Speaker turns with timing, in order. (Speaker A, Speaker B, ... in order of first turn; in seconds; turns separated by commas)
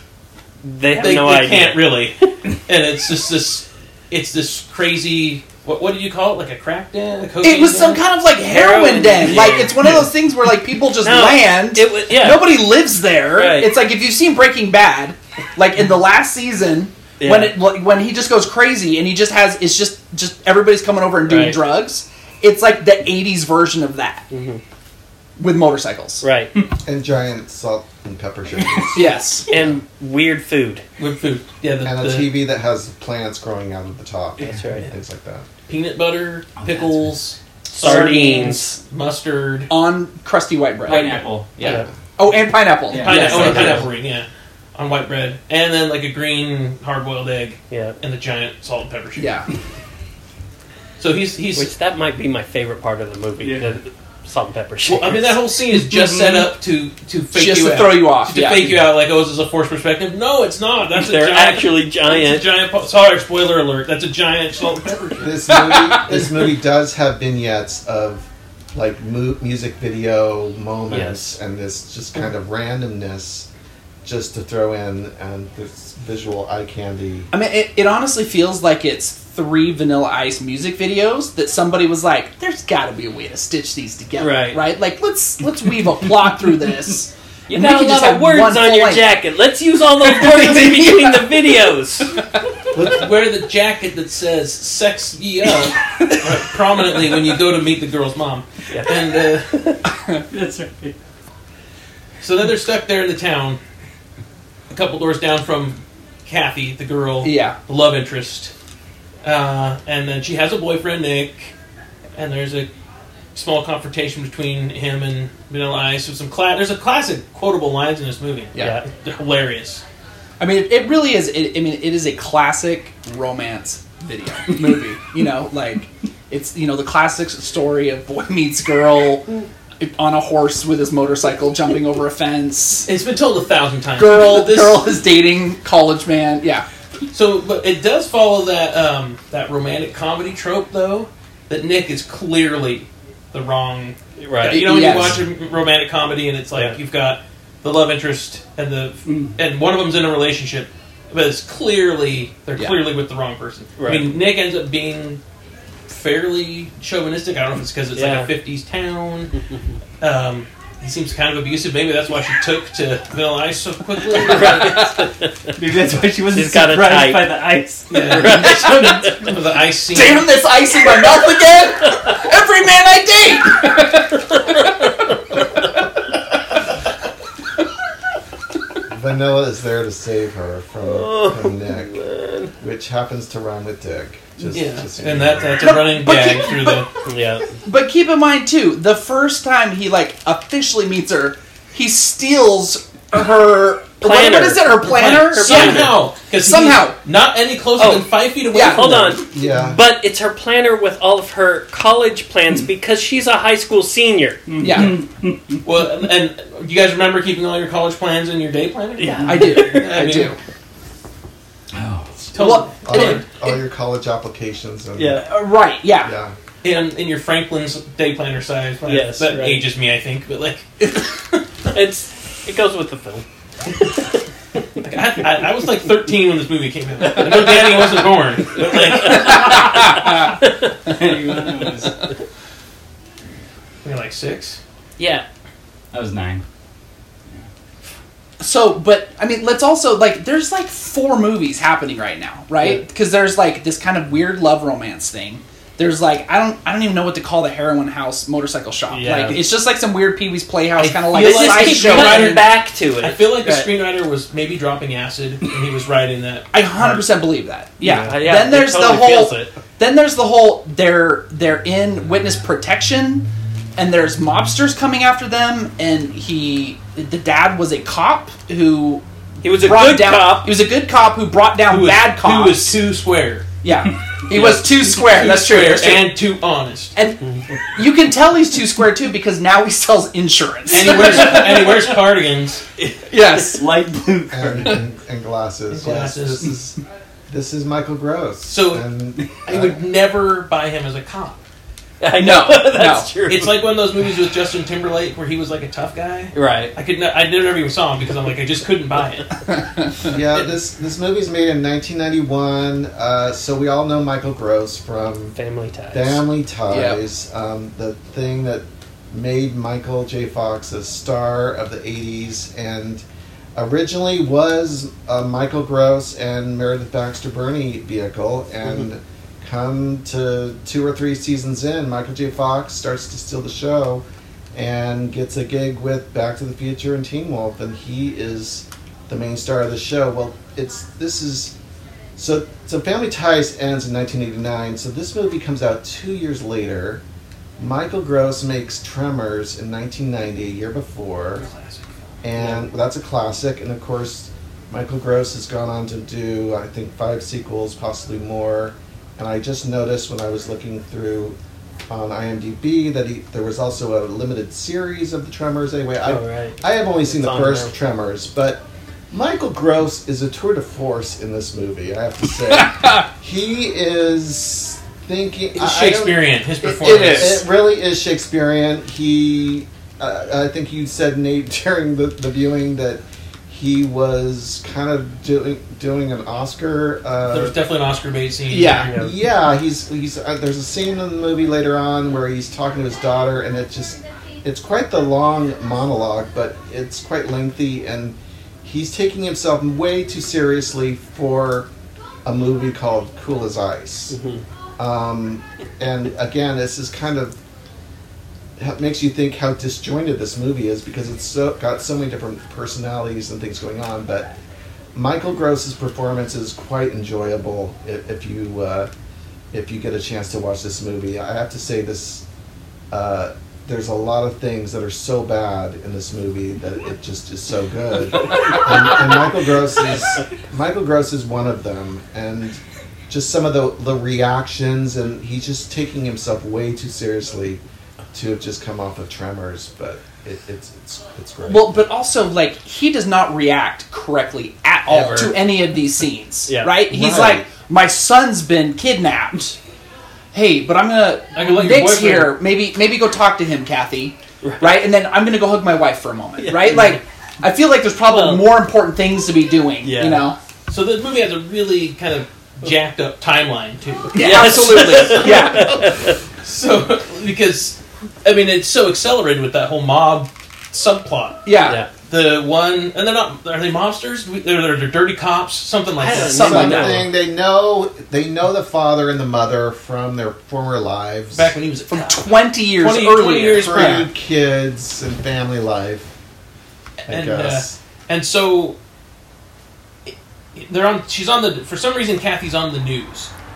Speaker A: 0.6-2.0, Speaker B: 1.0-8.0, Speaker C: 7.4-24.3, Speaker A: 8.4-10.0, Speaker B: 9.3-10.1, Speaker A: 11.0-12.6, Speaker A: 13.3-13.7, Speaker A: 17.2-17.6, Speaker A: 21.3-21.6, Speaker A: 24.3-24.6, Speaker C: 25.4-26.2, Speaker A: 26.2-26.5, Speaker D: 26.9-29.1, Speaker C: 28.9-29.5, Speaker A: 29.5-30.8, Speaker B: 31.0-32.3, Speaker D: 31.8-35.5, Speaker A: 34.4-34.9, Speaker B: 35.7-39.7, Speaker E: 36.6-37.2, Speaker A: 37.7-38.8, Speaker C: 37.8-38.5, Speaker C: 39.7-43.9, Speaker E: 40.9-41.8, Speaker A: 41.6-41.9, Speaker E: 42.9-43.9, Speaker B: 43.0-49.4, Speaker A: 43.0-43.9, Speaker A: 47.7-48.0, Speaker C: 49.2-49.5, Speaker B: 51.0-51.7, Speaker A: 51.6-55.4, Speaker E: 53.4-53.8, Speaker B: 54.9-65.5, Speaker E: 55.8-56.5, Speaker C: 57.3-58.8, Speaker A: 60.9-62.5, Speaker D: 65.2-73.5, Speaker C: 65.5-66.2, Speaker A: 70.9-71.3, Speaker D: 74.0-77.3, Speaker C: 77.3-89.1, Speaker A: 84.2-84.6, Speaker A: 87.5-92.2, Speaker C: 90.0-91.4, Speaker B: 92.7-99.6, Speaker A: 98.7-99.0, Speaker A: 99.5-99.8, Speaker C: 99.9-100.2, Speaker E: 100.3-101.0, Speaker B: 102.2-103.6, Speaker B: 104.7-108.5, Speaker C: 107.2-107.6, Speaker B: 109.2-111.5, Speaker B: 112.2-112.7, Speaker B: 113.3-119.8, Speaker A: 118.6-118.8, Speaker C: 120.4-132.9, Speaker B: 132.9-134.8, Speaker C: 134.0-136.7, Speaker B: 137.1-155.2, Speaker A: 144.2-144.7, Speaker C: 144.4-145.3, Speaker E: 149.1-149.4, Speaker A: 153.8-154.1, Speaker B: 155.9-159.3, Speaker A: 157.9-158.3, Speaker A: 159.4-159.8, Speaker B: 160.0-164.9, Speaker A: 164.1-165.5, Speaker E: 165.6-169.5, Speaker A: 166.3-167.5, Speaker B: 167.9-170.4, Speaker A: 168.1-168.9, Speaker C: 168.7-169.1, Speaker C: 169.9-174.9, Speaker D: 178.9-182.0, Speaker A: 180.8-182.5, Speaker D: 182.6-185.6, Speaker B: 184.5-186.9, Speaker C: 185.6-186.9, Speaker A: 187.1-187.5, Speaker C: 187.6-196.9, Speaker A: 194.0-195.9, Speaker B: 194.8-199.2, Speaker A: 197.8-204.4, Speaker C: 198.5-199.1, Speaker D: 199.3-199.8, Speaker E: 204.5-205.5, Speaker C: 204.6-205.0, Speaker B: 205.6-210.3, Speaker A: 209.0-209.8, Speaker E: 209.2-209.6, Speaker C: 209.3-210.4, Speaker E: 211.7-212.3, Speaker B: 212.3-213.2, Speaker C: 212.4-213.2, Speaker D: 212.9-215.3, Speaker A: 215.0-215.3, Speaker C: 215.2-216.2, Speaker D: 216.0-216.3, Speaker B: 216.6-221.4, Speaker A: 218.8-219.7, Speaker A: 221.7-224.1, Speaker B: 224.8-229.9, Speaker A: 228.7-230.7, Speaker C: 228.9-230.3, Speaker E: 230.9-232.0, Speaker B: 233.8-234.6, Speaker A: 235.0-235.3, Speaker E: 235.9-236.4, Speaker C: 238.4-252.4, Speaker A: 248.9-249.4, Speaker B: 250.8-257.0, Speaker A: 251.1-253.7, Speaker C: 256.5-272.8, Speaker A: 257.8-259.5, Speaker A: 269.4-270.5, Speaker B: 271.7-273.5, Speaker C: 273.6-276.1, Speaker B: 274.3-276.9, Speaker C: 276.9-277.2, Speaker C: 277.7-281.9, Speaker B: 280.7-282.6, Speaker C: 283.1-283.7, Speaker E: 283.6-284.9, Speaker D: 284.3-286.8, Speaker B: 285.7-286.5, Speaker D: 287.3-289.8, Speaker B: 288.5-288.8, Speaker B: 289.4-291.4, Speaker A: 292.0-293.6, Speaker C: 292.2-293.1, Speaker B: 293.3-299.4, Speaker A: 296.3-296.7, Speaker D: 300.1-305.4, Speaker A: 305.4-306.2, Speaker D: 305.9-313.1, Speaker C: 306.7-307.0, Speaker D: 313.6-331.5, Speaker D: 332.2-337.0, Speaker D: 337.6-341.5, Speaker B: 341.4-342.1, Speaker D: 342.2-351.4, Speaker D: 351.9-377.6, Speaker A: 356.1-357.7, Speaker C: 362.5-363.1, Speaker B: 365.6-367.5, Speaker C: 366.6-367.4, Speaker B: 377.3-378.9, Speaker C: 378.5-379.0, Speaker A: 378.8-379.1, Speaker D: 378.9-391.7, Speaker D: 392.2-394.2, Speaker A: 394.1-394.4, Speaker D: 394.8-397.4, Speaker D: 398.6-404.3, Speaker D: 404.9-408.9, Speaker D: 409.5-412.2, Speaker D: 412.9-427.6, Speaker D: 428.1-431.8, Speaker C: 431.4-439.6, Speaker A: 434.9-435.4, Speaker A: 436.5-436.7, Speaker D: 436.9-437.5, Speaker C: 440.3-450.4, Speaker B: 441.4-442.4, Speaker A: 444.4-444.8, Speaker A: 446.4-447.0, Speaker A: 448.1-448.5, Speaker A: 449.8-450.2, Speaker B: 450.7-461.4, Speaker C: 454.1-455.9, Speaker A: 454.2-456.2, Speaker C: 461.4-461.8, Speaker B: 462.1-466.7, Speaker A: 466.0-467.1, Speaker C: 466.1-467.0, Speaker D: 466.3-471.6, Speaker B: 471.3-474.1, Speaker C: 471.9-474.1, Speaker D: 473.6-476.1, Speaker B: 477.0-478.8, Speaker D: 477.1-477.8, Speaker B: 480.1-483.3